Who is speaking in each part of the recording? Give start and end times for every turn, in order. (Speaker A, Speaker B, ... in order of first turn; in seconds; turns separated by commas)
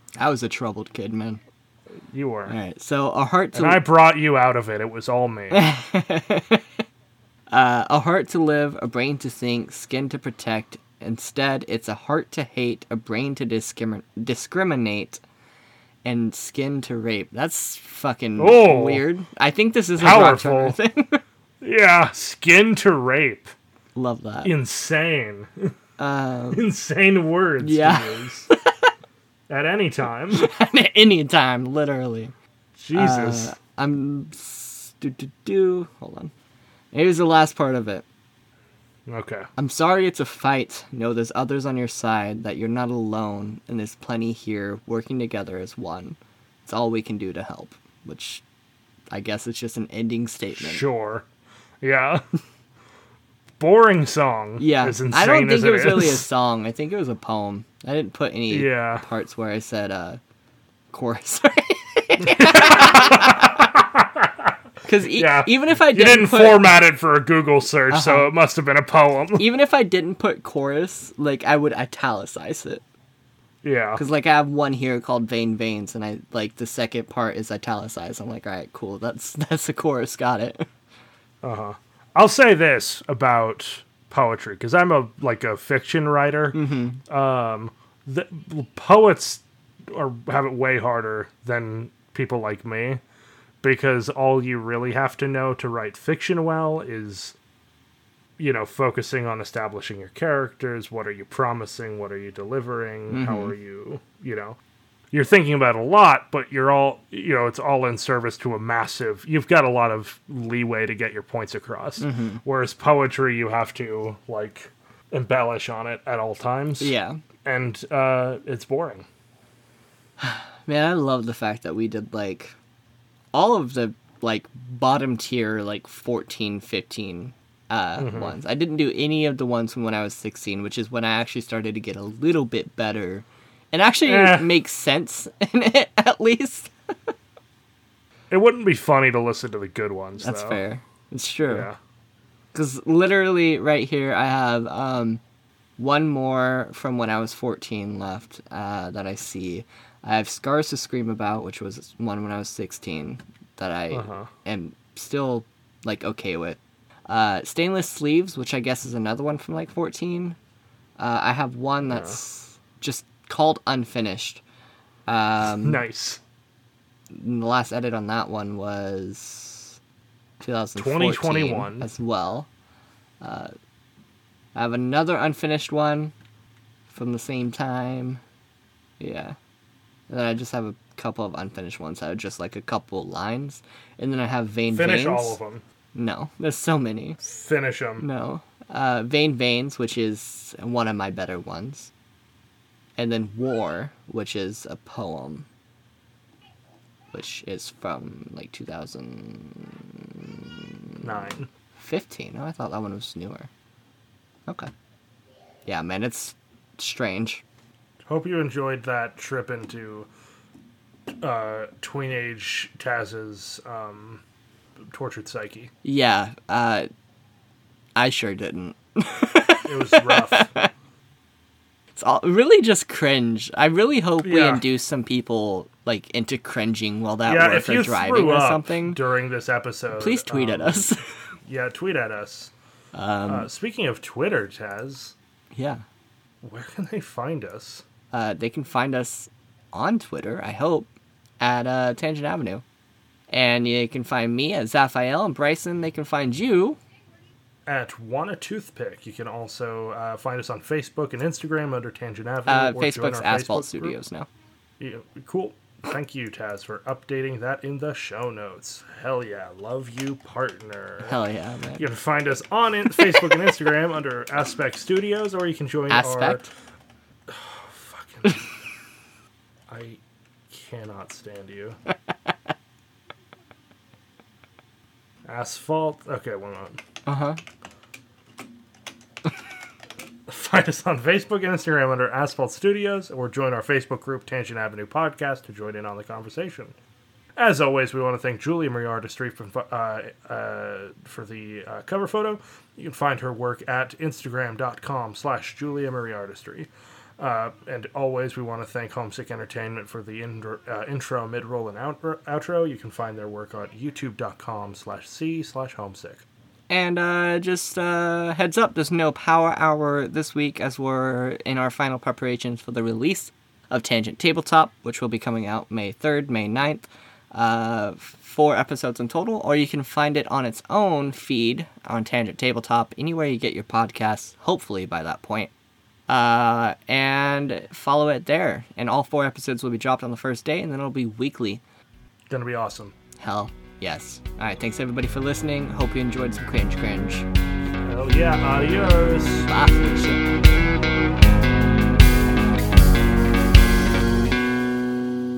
Speaker A: 0.2-1.4, Speaker B: 2.1-2.5, Speaker A: 2.5-3.9, Speaker B: 3.5-5.6, Speaker A: 5.5-6.7, Speaker A: 7.5-15.2, Speaker A: 16.0-21.2, Speaker B: 18.4-19.0, Speaker B: 20.0-20.8, Speaker B: 21.6-23.5, Speaker A: 23.9-24.5, Speaker B: 24.4-25.7, Speaker A: 26.0-26.6, Speaker B: 26.5-28.5, Speaker A: 27.6-28.9, Speaker B: 29.5-30.4, Speaker A: 30.3-32.3, Speaker B: 32.8-33.5, Speaker A: 32.9-36.3, Speaker A: 36.9-38.0, Speaker B: 39.1-39.5, Speaker A: 39.6-48.4, Speaker A: 49.1-50.8, Speaker B: 50.5-51.2, Speaker B: 51.8-52.2, Speaker B: 53.6-56.3, Speaker A: 54.6-60.2, Speaker B: 58.5-59.0, Speaker A: 60.9-63.6, Speaker B: 62.2-64.5, Speaker A: 64.8-66.7, Speaker B: 65.0-69.4, Speaker A: 67.9-68.2, Speaker A: 69.4-72.8, Speaker B: 73.6-74.0, Speaker A: 74.0-80.7, Speaker B: 81.4-93.0, Speaker A: 86.5-87.0, Speaker B: 93.6-97.3, Speaker B: 98.4-104.6, Speaker A: 103.1-103.5, Speaker B: 105.1-116.9, Speaker A: 112.0-112.4, Speaker A: 116.8-117.2, Speaker B: 117.4-119.0, Speaker A: 120.2-122.5, Speaker A: 123.3-136.7, Speaker B: 128.0-128.4, Speaker B: 134.0-134.5, Speaker B: 138.3-140.6, Speaker A: 140.2-141.7, Speaker B: 141.5-141.8, Speaker A: 142.5-145.2, Speaker A: 145.8-160.3, Speaker B: 153.9-154.3, Speaker A: 161.0-164.4, Speaker B: 161.9-162.2, Speaker A: 165.1-165.8, Speaker B: 165.6-166.2, Speaker A: 167.1-169.8, Speaker A: 170.4-172.5, Speaker B: 170.8-171.9, Speaker A: 173.2-173.5, Speaker A: 174.5-176.1, Speaker A: 176.9-178.2, Speaker A: 179.0-179.3, Speaker A: 180.1-185.4, Speaker B: 184.7-185.6, Speaker A: 185.9-187.2, Speaker B: 187.2-188.1, Speaker A: 188.0-191.9, Speaker A: 193.0-195.5, Speaker A: 197.1-200.7, Speaker B: 201.0-201.5, Speaker A: 201.8-203.5, Speaker A: 205.7-207.4, Speaker B: 208.1-210.1, Speaker B: 211.2-214.2, Speaker B: 214.9-215.7, Speaker A: 215.8-216.9, Speaker A: 217.9-220.7, Speaker B: 219.6-220.5, Speaker A: 221.9-229.0, Speaker B: 224.2-224.6, Speaker B: 227.2-230.8, Speaker A: 229.9-231.0, Speaker B: 231.4-232.5, Speaker A: 232.9-233.5, Speaker B: 233.3-235.1, Speaker A: 235.5-235.8, Speaker B: 236.4-237.8, Speaker A: 238.1-242.6, Speaker A: 243.3-246.8, Speaker B: 247.7-253.9, Speaker A: 252.5-254.3, Speaker B: 254.8-261.2, Speaker A: 261.0-261.8, Speaker B: 261.8-266.4, Speaker A: 265.9-266.5, Speaker B: 267.3-268.4, Speaker B: 269.7-271.8, Speaker B: 275.2-276.8, Speaker A: 277.1-277.4, Speaker B: 280.3-286.7, Speaker B: 287.4-306.2, Speaker A: 306.7-325.5, Speaker A: 326.1-331.6, Speaker B: 332.3-332.9, Speaker A: 333.2-337.2, Speaker B: 337.8-339.5, Speaker A: 339.5-340.3